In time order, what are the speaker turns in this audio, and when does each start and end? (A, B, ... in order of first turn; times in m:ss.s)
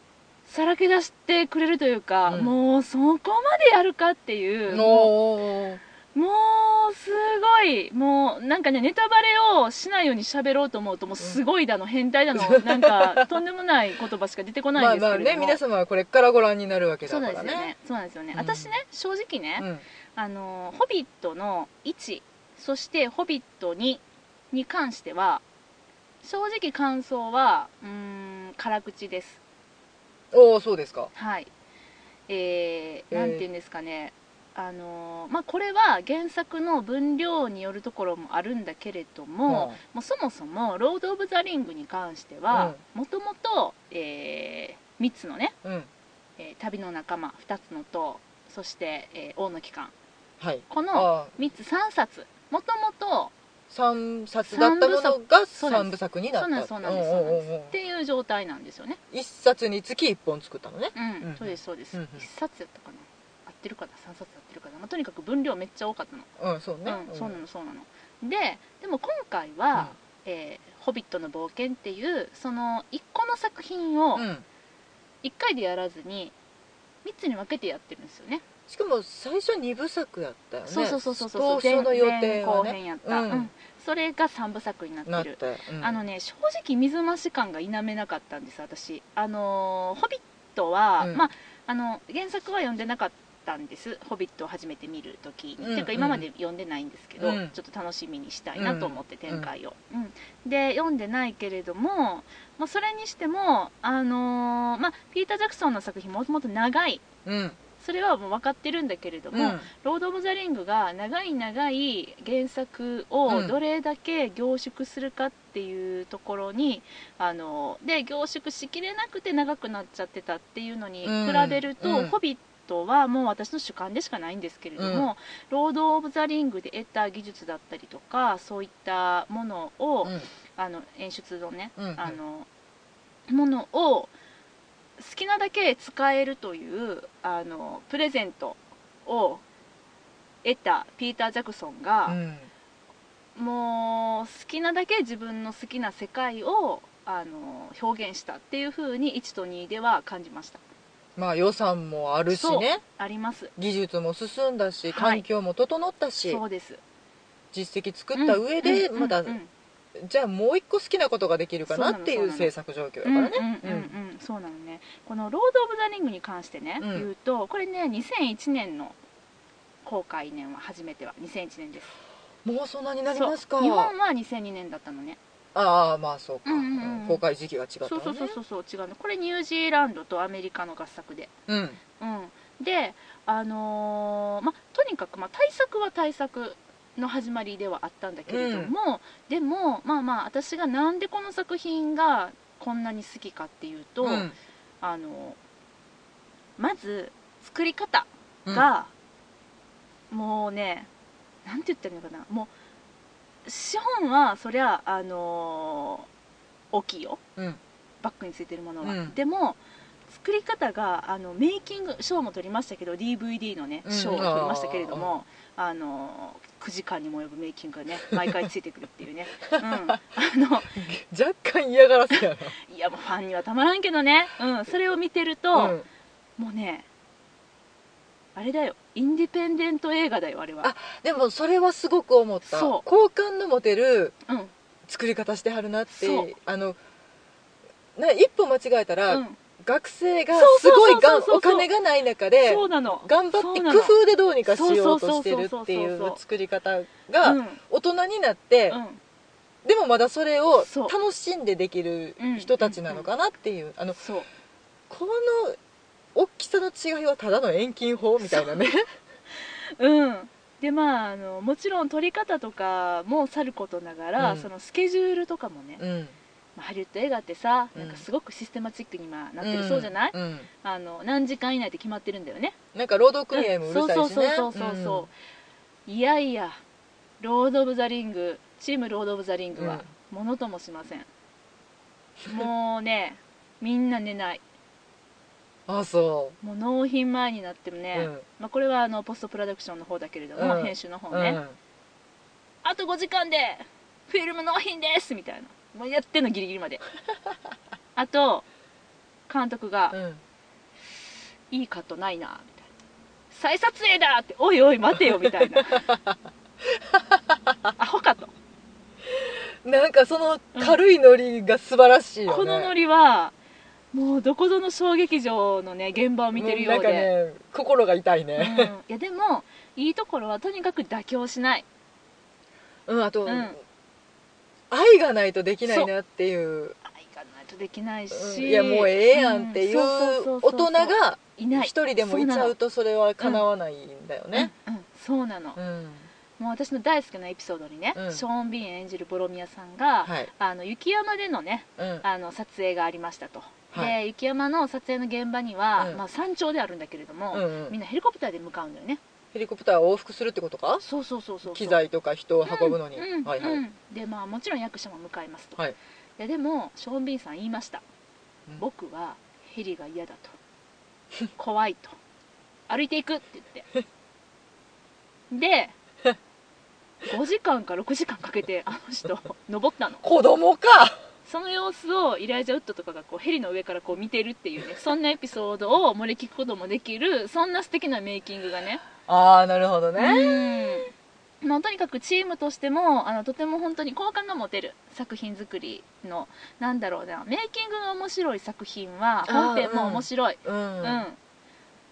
0:00.4-0:05.1 A
0:02.3-0:02.5 B
0:04.7-0:05.8 B
0:06.1-0:15.6 A
0:12.3-0:13.2 B
0:14.7-0:17.7 B
0:17.0-0:25.4 A
0:18.3-0:18.7 B
0:19.6-0:19.8 B
0:26.2-0:29.4 A
0:30.3-0:31.1 B
0:31.1-0:31.5 A
0:32.3-0:45.5 A
0:33.1-0:33.4 B
0:39.5-0:39.8 B
0:42.5-0:42.8 B
0:45.6-0:45.9 B
0:46.4-0:49.9 A
0:50.4-0:51.4 B
0:50.7-0:53.3 A
0:53.7-0:57.7 B
0:54.4-0:59.0 A
0:59.1-1:02.2 B
1:00.9-1:06.3 A
1:06.4-1:07.4 B
1:06.8-1:14.2 A
1:14.2-1:14.4 B
1:15.2-1:16.3 A
1:17.0-1:18.4 A
1:18.7-1:23.5 B
1:20.7-1:47.0 A
1:25.1-1:26.0 B
1:31.0-1:31.2 B
1:35.6-1:36.3 B
1:37.2-1:37.5 B
1:38.6-1:39.5 B
1:47.2-1:47.6 B
1:47.8-2:12.5 A
1:49.3-1:49.6 B
1:53.3-1:53.5 B
2:01.0-2:02.1 B
2:04.8-2:05.1 B
2:11.8-2:12.2 B
2:13.3-2:14.1 A
2:15.0-2:19.4 A
2:20.4-2:22.2 A
2:22.1-2:22.5 B
2:23.4-2:30.6 A
2:31.2-2:32.8 B
2:32.3-2:33.5 A
2:33.6-2:36.4 B
2:34.9-2:35.2 A
2:36.2-2:36.8 A
2:37.5-2:39.4 B
2:38.1-2:39.5 A
2:40.0-2:43.9 B
2:41.7-2:42.5 A
2:43.0-2:49.0 A
2:46.8-2:47.1 B
2:49.8-2:51.9 A
2:52.4-2:53.9 B
2:53.1-2:55.2 A
2:55.5-2:58.4 B
2:56.4-2:57.2 A
2:57.8-3:01.3 A
3:01.5-3:01.8 B
3:02.0-3:14.3 A
3:08.3-3:08.7 B
3:14.0-3:14.3 B
3:14.8-3:15.4 A
3:16.6-3:18.9 A
3:20.1-3:20.9 A
3:21.4-3:22.5 A
3:23.4-3:26.1 A
3:26.7-3:27.2 A
3:28.0-3:40.8 A
3:28.8-3:29.2 B
3:33.8-3:35.1 B
3:39.6-3:40.0 B
3:40.7-3:42.6 B
3:42.1-3:45.8 A
3:45.5-3:45.8 B
3:46.4-3:46.8 A
3:48.3-3:50.7 A
3:50.6-3:54.1 B
3:52.5-3:52.8 A
3:54.9-3:56.8 B
3:55.9-3:56.3 A
3:58.0-4:08.8 B
3:59.1-3:59.4 A
4:00.3-4:01.7 A
4:02.4-4:03.9 A
4:04.5-4:06.2 A
4:07.2-4:07.6 A
4:08.7-4:09.0 A
4:09.6-4:14.0 B
4:10.6-4:10.9 A
4:12.2-4:13.1 A
4:14.0-4:14.3 A
4:14.9-4:15.6 B
4:16.1-4:18.8 B
4:18.2-4:18.6 A
4:19.8-4:25.8 A
4:24.2-4:24.5 B
4:25.8-4:26.1 B
4:26.6-4:32.6 A
4:27.7-4:28.0 B
4:29.4-4:30.5 B
4:32.7-4:35.1 B
4:33.3-4:35.1 A
4:35.8-4:36.6 A
4:37.2-4:41.1 A
4:39.6-4:39.8 B
4:42.2-4:44.4 A
4:45.7-4:46.4 B
4:46.4-4:51.4 A
4:47.9-4:48.2 B
4:50.4-4:51.6 B
4:52.6-4:56.8 A
4:58.0-4:58.5 A
4:59.3-5:00.0 A
4:59.9-5:00.2 B
5:01.5-5:02.7 A
5:03.3-5:05.9 A
5:05.1-5:07.7 B
5:07.8-5:08.3 A
5:09.1-5:12.7 B
5:12.3-5:13.3 A
5:13.9-5:17.1 A
5:16.3-5:18.7 B
5:18.4-5:21.6 A
5:22.9-5:23.6 B
5:23.2-5:23.6 A
5:24.7-5:26.8 B
5:26.9-5:32.5 A
5:28.1-5:34.5 B
5:34.3-5:35.6 A
5:35.6-5:36.1 B
5:36.4-5:49.0 A
5:37.9-5:38.2 B
5:40.0-5:40.3 B
5:41.8-5:42.0 B
5:47.3-5:47.8 B
5:49.3-5:50.8 B
5:50.8-5:51.8 A
5:51.5-5:53.6 B
5:52.4-5:55.6 A
5:56.2-5:57.8 A
5:58.6-6:00.3 A
6:01.4-6:02.0 A
6:02.7-6:03.7 A
6:05.3-6:05.7 A
6:07.0-6:10.0 A
6:10.0-6:11.0 B
6:11.2-6:18.8 A
6:19.0-6:20.8 B
6:20.0-6:20.9 A
6:21.4-6:31.2 A
6:29.2-6:31.0 B